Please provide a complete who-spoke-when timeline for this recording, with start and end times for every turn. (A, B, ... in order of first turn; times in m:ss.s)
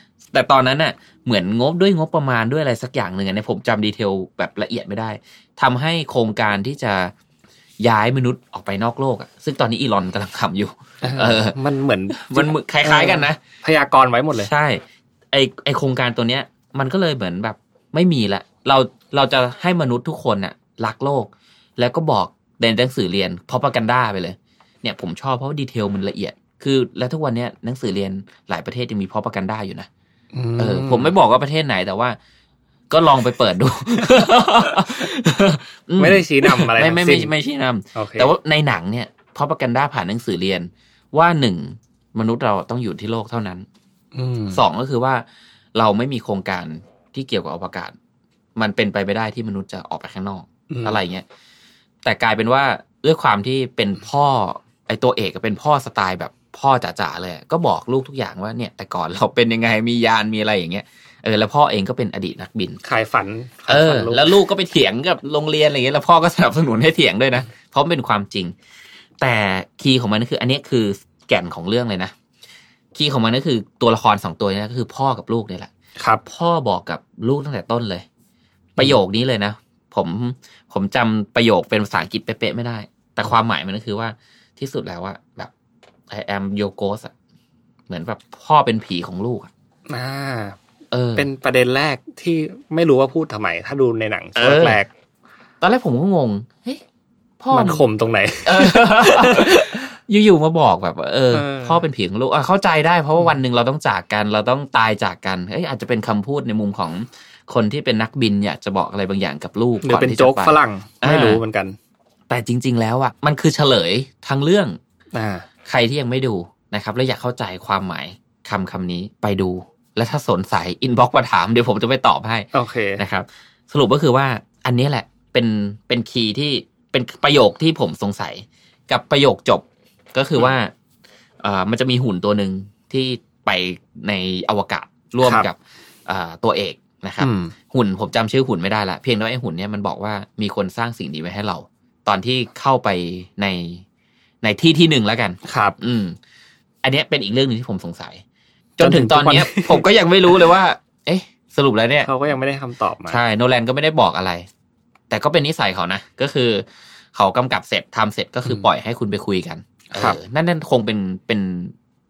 0:00.3-0:07.1 A
0:07.8-0:11.6 A
0:11.0-0:14.5 B
0:12.1-0:13.4 A
0:14.3-0:29.9 A
0:30.3-0:31.1 B
0:30.6-0:32.2 A
0:32.9-0:43.7 A
0:36.0-0:37.3 B
0:38.0-0:38.3 B
0:44.1-0:44.6 B
0:44.5-0:48.0 A
0:48.6-0:51.2 A
0:50.7-0:51.0 B
0:52.0-1:02.8 A
1:02.8-1:04.3 B
1:03.7-1:08.5 A
1:09.2-1:12.1 A
1:12.9-1:15.7 A
1:16.0-1:16.2 B
1:16.3-1:18.1 A
1:18.8-1:25.5 A
1:26.1-1:27.1 A
1:27.9-1:29.5 A
1:29.9-1:30.6 B
1:30.9-1:31.3 A
1:31.2-1:34.9 B
1:34.4-1:34.8 A
1:35.6-1:36.8 A
1:37.4-1:37.8 A
1:37.5-1:39.8 B
1:38.4-1:51.4 A
1:41.3-1:41.8 B
1:49.8-1:51.8 B
1:52.3-1:54.8 A
1:55.1-1:55.5 B
1:55.7-2:10.7 A
2:02.5-2:03.0 B
2:11.4-2:23.8 A
2:15.2-2:15.5 B
2:17.2-2:17.5 B
2:24.4-2:26.2 A
2:25.4-2:25.8 B
2:26.8-2:28.2 A
2:28.8-2:29.8 B
2:28.8-2:32.1 A
2:32.0-2:33.2 B
2:33.1-2:34.5 A
2:35.1-2:41.7 A
2:39.9-2:40.2 B